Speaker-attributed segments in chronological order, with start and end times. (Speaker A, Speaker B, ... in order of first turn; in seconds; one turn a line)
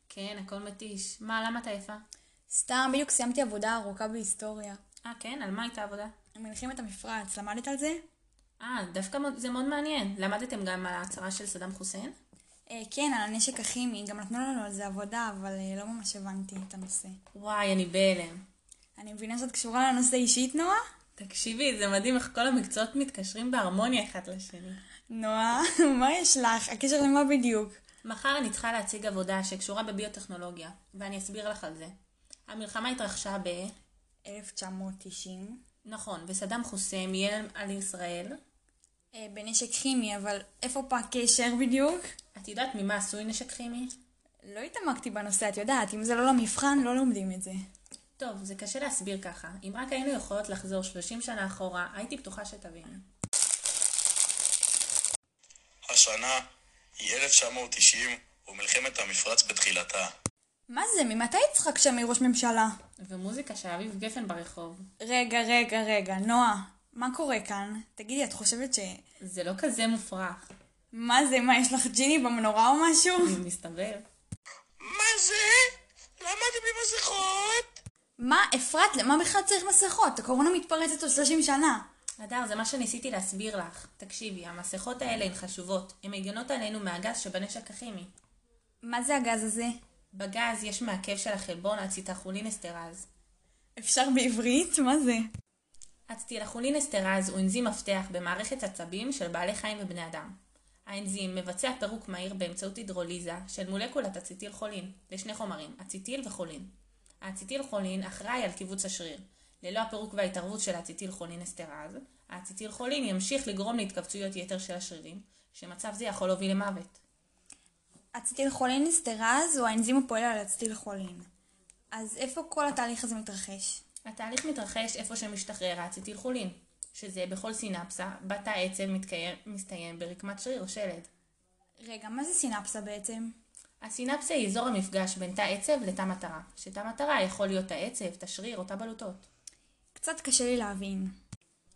Speaker A: 0.1-2.0
Speaker B: 2.5-4.8
Speaker A: 5.0-6.1
Speaker B: 6.3-8.0
Speaker A: 8.6-12.2
Speaker B: 12.7-17.2
Speaker A: 17.3-18.4
Speaker B: 19.0-20.8
Speaker A: 21.2-24.8
Speaker B: 25.1-27.8
Speaker A: 28.0-31.9
Speaker A: 32.5-33.8
Speaker B: 34.2-35.6
Speaker A: 35.9-38.4
Speaker B: 39.1-42.1
Speaker A: 42.4-44.0
Speaker B: 44.4-47.6
Speaker A: 48.2-53.0
Speaker C: 55.9-56.5
Speaker C: 57.0-60.1
Speaker B: 60.7-62.8
Speaker A: 63.0-64.9
Speaker B: 65.0-69.0
Speaker A: 69.2-70.5
Speaker B: 70.9-73.4
Speaker A: 73.2-74.0
Speaker C: 74.8-77.7
Speaker B: 78.2-81.8
Speaker A: 82.2-88.1
Speaker B: 88.8-89.8
Speaker A: 90.1-93.1
Speaker B: 93.8-95.3
Speaker A: 96.1-117.0
Speaker B: 118.1-121.3
Speaker B: 121.9-123.8
Speaker A: 124.0-131.1
Speaker B: 131.8-133.3
Speaker A: 133.8-139.3
Speaker B: 139.9-141.2